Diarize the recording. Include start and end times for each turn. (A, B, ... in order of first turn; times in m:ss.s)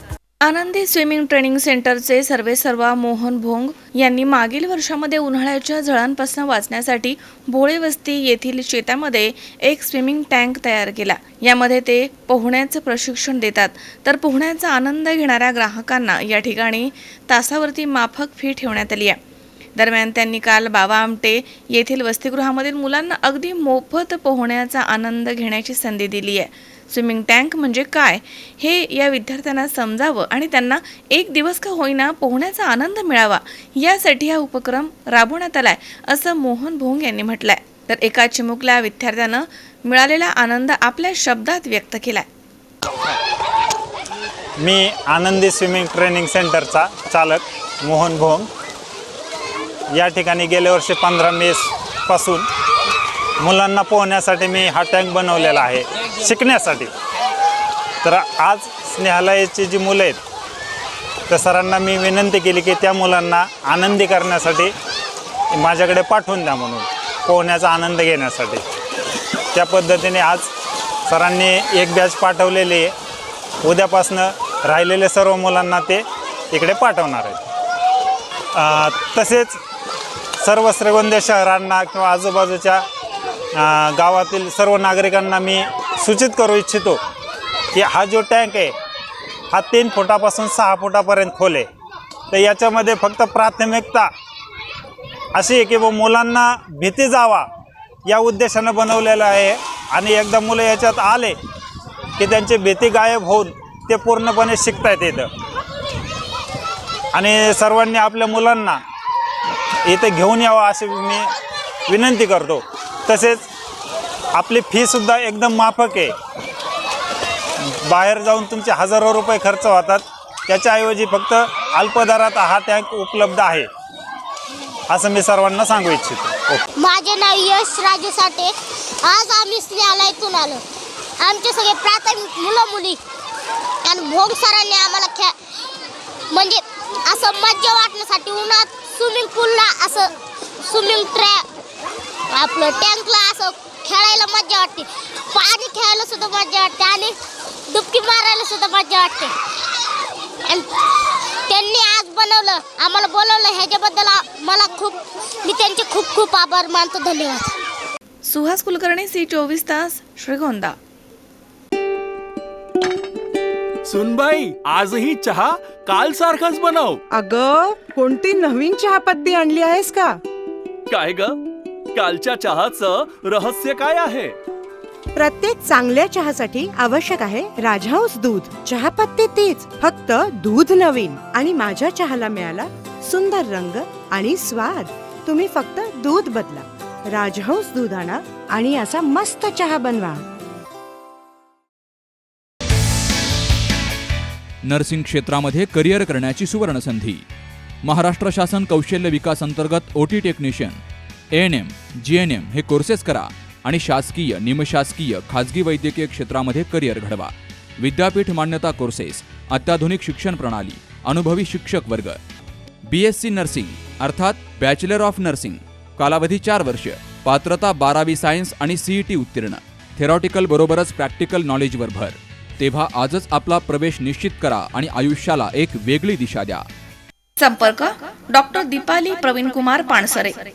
0:00.4-0:19.2 A
0:19.8-0:42.3 A
0:44.6-0:48.5 B
0:49.9-0:52.4 B
0:53.4-0:56.9 B
0:58.0-1:00.2 B
1:01.3-1:04.7 B
1:05.5-1:08.6 B
1:09.5-1:10.5 B
1:11.1-1:12.9 B
1:13.6-1:17.4 B
1:18.6-1:19.6 B
1:20.4-1:22.8 B
1:23.6-1:27.0 B
1:27.7-1:28.7 B
1:29.5-1:31.7 B
1:32.3-1:34.1 B
1:35.3-1:37.4 B
1:38.1-1:41.3 B
1:42.2-1:45.3 B
1:47.1-1:48.8 B
1:49.9-1:51.3 B
1:51.9-1:53.5 B
1:54.3-1:56.1 B
1:57.8-2:03.7 B
2:04.9-2:06.6 B
2:06.8-2:08.5 C
2:09.0-2:10.6 C
2:11.2-2:13.0 C
2:13.8-2:15.3 C
2:16.3-2:20.1 C
2:20.6-2:21.4 C
2:22.3-2:27.2 C
2:27.7-2:29.3 C
2:31.5-2:37.5 C
2:38.2-2:40.8 A
2:43.8-2:47.0 D
2:47.1-2:50.2 E
2:50.9-2:51.4 D
2:51.9-2:54.3 D
2:55.1-3:10.2 E
3:14.6-3:17.2 F
3:17.8-3:20.8 F
3:21.3-3:32.2 F
3:32.9-3:46.6 F
3:47.4-3:50.4 A